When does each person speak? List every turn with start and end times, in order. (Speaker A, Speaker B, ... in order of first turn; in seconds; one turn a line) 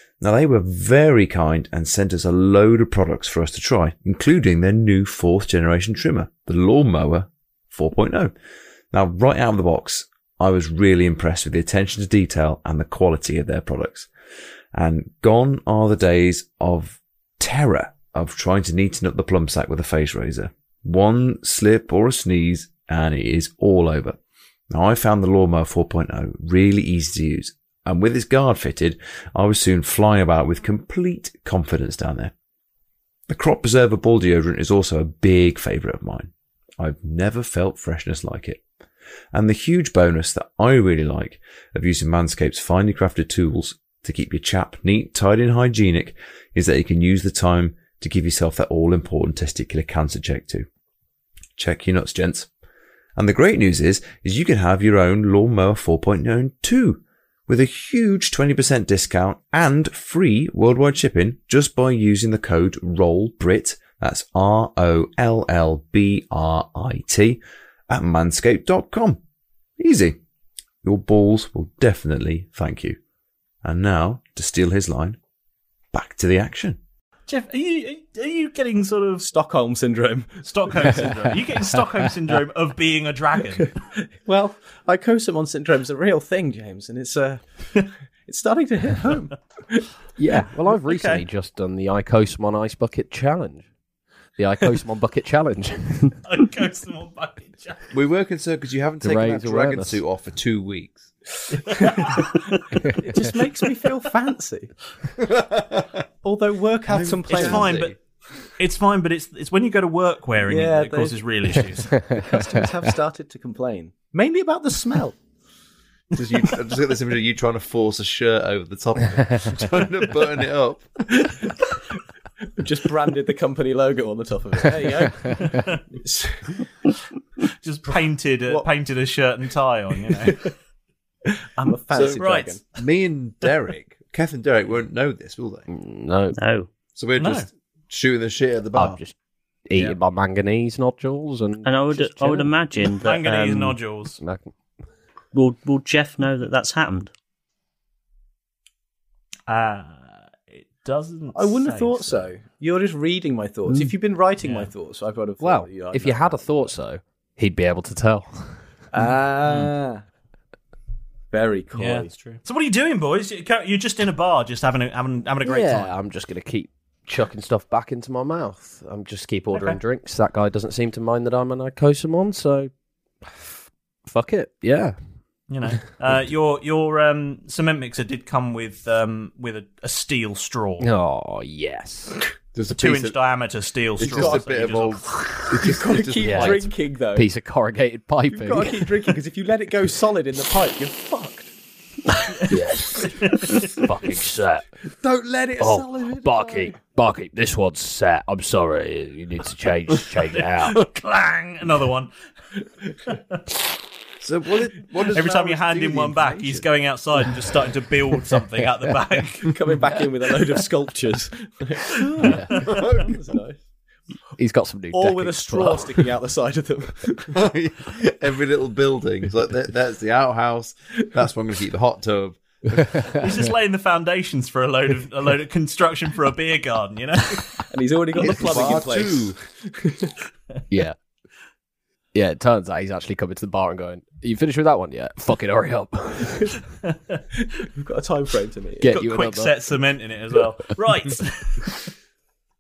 Speaker A: 0.2-8.3
Speaker A: 8.9-14.1
Speaker A: 14.8-24.2
Speaker A: 24.7-32.3
Speaker A: 33.3-38.6
Speaker A: 39.3-50.7
Speaker A: 51.6-52.5
Speaker A: 53.2-69.2
Speaker A: 69.8-70.2
Speaker A: 70.8-73.0
Speaker A: 73.6-75.2
Speaker A: 75.9-76.8
Speaker B: 77.3-79.3
Speaker C: 79.2-81.1
Speaker B: 80.4-83.7
Speaker C: 84.2-87.4
Speaker C: 88.3-89.9
Speaker D: 90.2-93.7
Speaker B: 90.9-91.2
Speaker D: 94.4-96.2
Speaker B: 96.2-97.8
Speaker A: 97.9-101.1
Speaker D: 99.0-100.0
Speaker C: 101.7-102.3
Speaker B: 101.7-102.3
Speaker C: 103.0-104.7
Speaker A: 105.3-105.9
Speaker C: 106.2-107.8
Speaker A: 106.9-108.0
Speaker B: 107.3-108.0
Speaker B: 108.6-112.0
Speaker C: 110.4-111.2
Speaker D: 112.1-112.7
Speaker C: 112.2-115.2
Speaker A: 116.2-120.9
Speaker C: 121.2-121.5
Speaker C: 122.6-126.6
Speaker B: 125.3-125.8
Speaker B: 127.6-130.5
Speaker C: 130.1-130.4
Speaker C: 131.3-132.6
Speaker A: 131.9-135.7
Speaker B: 132.2-132.6
Speaker D: 135.7-136.4
Speaker E: 136.3-136.7
Speaker A: 136.9-139.0
Speaker B: 137.2-137.5
Speaker D: 138.8-139.2
Speaker D: 139.7-142.5
Speaker E: 141.6-143.8
Speaker B: 143.0-144.2
Speaker D: 144.2-144.5
Speaker E: 145.3-147.1
Speaker B: 149.5-152.3
Speaker C: 151.3-156.7
Speaker B: 154.4-154.7
Speaker D: 155.4-158.6
Speaker C: 158.9-160.0
Speaker C: 161.3-162.1
Speaker B: 161.8-165.9
Speaker D: 165.4-172.7
Speaker B: 169.5-169.8
Speaker D: 173.2-173.5
Speaker D: 174.1-175.0
Speaker B: 175.5-180.9
Speaker D: 180.8-182.2
Speaker A: 182.6-183.2
Speaker B: 182.7-185.0
Speaker A: 184.0-186.7
Speaker C: 184.0-184.5
Speaker C: 185.5-187.3
Speaker D: 186.2-186.6
Speaker D: 187.2-188.9
Speaker C: 188.3-191.5
Speaker F: 192.5-194.7
Speaker B: 193.2-193.7
Speaker C: 194.9-196.8
Speaker F: 195.6-200.8
Speaker B: 200.7-202.1
Speaker A: 204.2-206.6
Speaker B: 205.1-209.5
Speaker C: 209.5-213.6
Speaker B: 211.9-212.8
Speaker D: 212.2-212.5
Speaker A: 212.7-213.1
Speaker D: 214.4-216.0
Speaker C: 214.9-217.3
Speaker A: 217.3-223.3
Speaker B: 223.2-227.6
Speaker C: 227.7-230.1
Speaker A: 228.2-229.4
Speaker D: 230.7-231.0
Speaker D: 232.1-236.5
Speaker B: 236.8-237.2
Speaker C: 237.6-238.9
Speaker D: 238.8-239.8
Speaker B: 238.9-241.8